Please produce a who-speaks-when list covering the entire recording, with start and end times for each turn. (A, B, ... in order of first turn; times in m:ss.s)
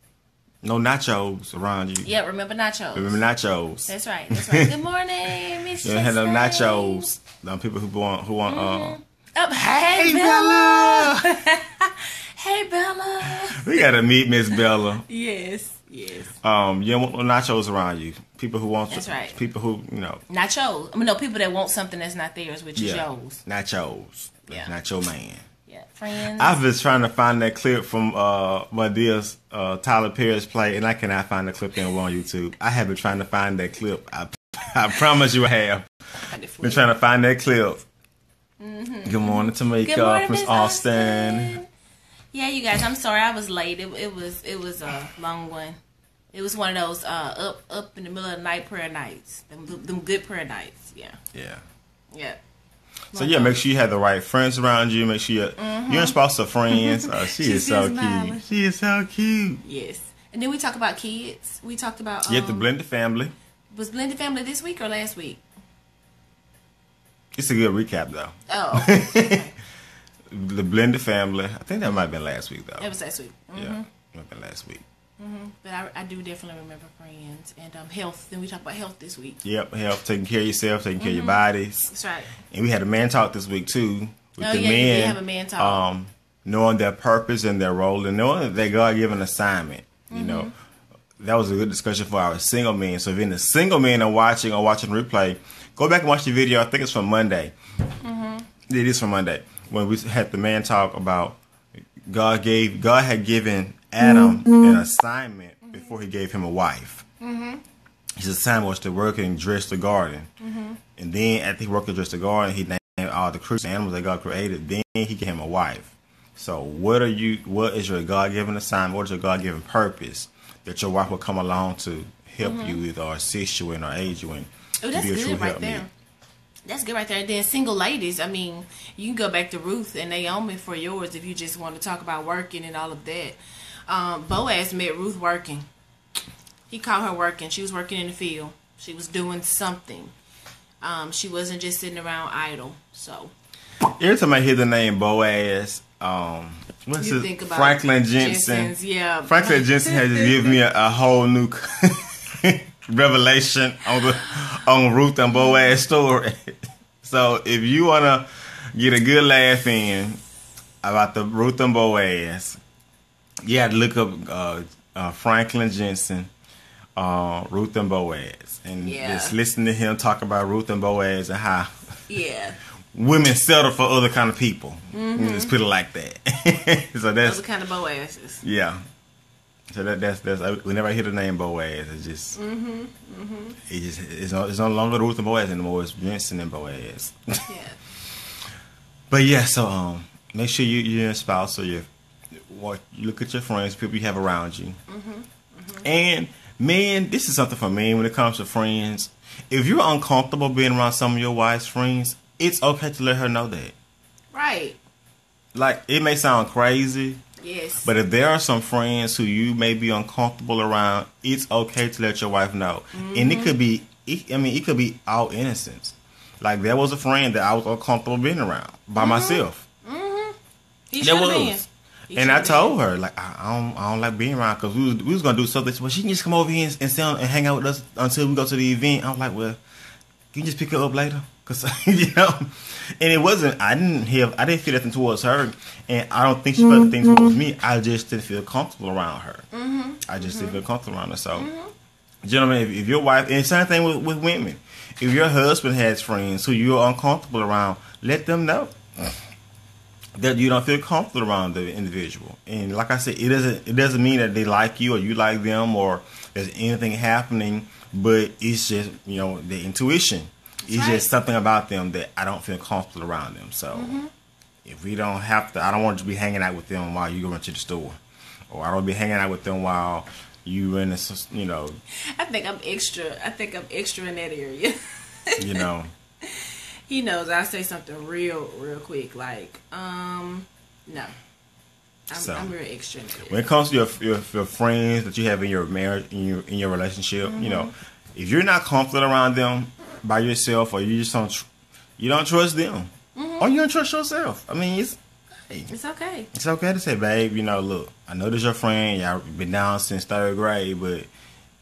0:00.6-0:02.1 A
0:02.0-0:03.2 B
0:02.9-0:04.7 A
0:03.9-0:07.1 B
0:05.7-0:09.0 A
0:08.5-0:13.9 B
0:09.6-0:11.4 A
0:13.2-0:15.1 A
0:14.5-0:16.4 B
0:16.4-0:20.2 A
0:18.9-0:19.4 B
0:20.3-0:23.4 B
0:22.8-0:25.5 A
0:25.7-0:26.6 B
0:26.2-0:37.8 A
0:36.3-0:36.9 B
0:38.6-0:41.7 B
0:39.0-0:41.6 A
0:42.3-0:45.8 B
0:46.3-0:51.2 B
0:51.3-0:51.6 A
0:52.1-0:52.4 B
0:53.1-0:53.6 B
0:53.1-0:59.6 A
0:55.6-0:56.2 B
0:56.7-0:58.4 B
0:59.6-1:02.7 B
1:02.2-1:03.3 A
1:03.7-1:05.4 B
1:07.4-1:09.4 A
1:08.5-1:09.6 B
1:10.3-1:12.9 A
1:12.8-1:13.9 B
1:13.6-1:14.8 A
1:15.2-1:19.4 B
1:19.4-1:21.9 A
1:21.0-1:22.4 B
1:22.4-1:30.5 A
1:24.4-1:25.8 B
1:30.1-1:30.5 B
1:31.2-1:37.5 A
1:38.0-1:38.5 B
1:38.7-1:41.4 A
1:42.1-1:47.1 A
1:47.2-1:47.6 B
1:48.2-1:50.3 A
1:50.4-1:50.8 B
1:51.0-2:05.9 A
2:02.4-2:02.8 B
2:04.8-2:05.9 B
2:06.7-2:15.7 B
2:16.7-2:20.1 B
2:20.8-2:23.3 B
2:24.0-2:28.7 A
2:27.0-2:30.5 B
2:29.3-2:40.2 A
2:40.8-2:42.6 A
2:43.4-2:46.3 A
2:47.0-2:51.9 A
2:48.8-2:49.4 B
2:52.1-2:52.6 B
2:52.9-2:57.4 A
2:54.9-2:55.5 B
2:57.2-2:58.4 B
2:58.4-2:58.8 A
2:59.7-3:02.4 A
3:02.4-3:03.6 B
3:03.6-3:07.5 A
3:07.5-3:07.8 B
3:09.1-3:14.8 A
3:14.9-3:15.8 B
3:15.8-3:23.8 A
3:24.3-3:24.8 B
3:25.5-3:27.2 A
3:27.4-3:27.9 B
3:27.8-3:39.6 A
3:32.9-3:33.6 B
3:39.0-3:40.4 B
3:40.9-3:42.8 B
3:41.0-3:49.6 A
3:50.3-3:59.5 A
3:59.5-4:00.6 B
4:00.0-4:01.5 A
4:01.3-4:01.7 B
4:02.2-4:09.2 A
4:10.2-4:24.0 A
4:20.6-4:21.1 B
4:23.7-4:24.1 B
4:24.6-4:28.0 A
4:28.5-4:31.8 A
4:31.9-4:35.7 B
4:35.4-4:35.9 A
4:36.2-4:41.1 B
4:42.1-4:43.4 B
4:42.1-4:42.5 A
4:43.2-4:51.5 A
4:47.2-4:47.7 B
4:52.0-4:55.7 A
4:53.2-4:53.5 B
4:55.7-4:56.3 B
4:56.3-5:01.1 A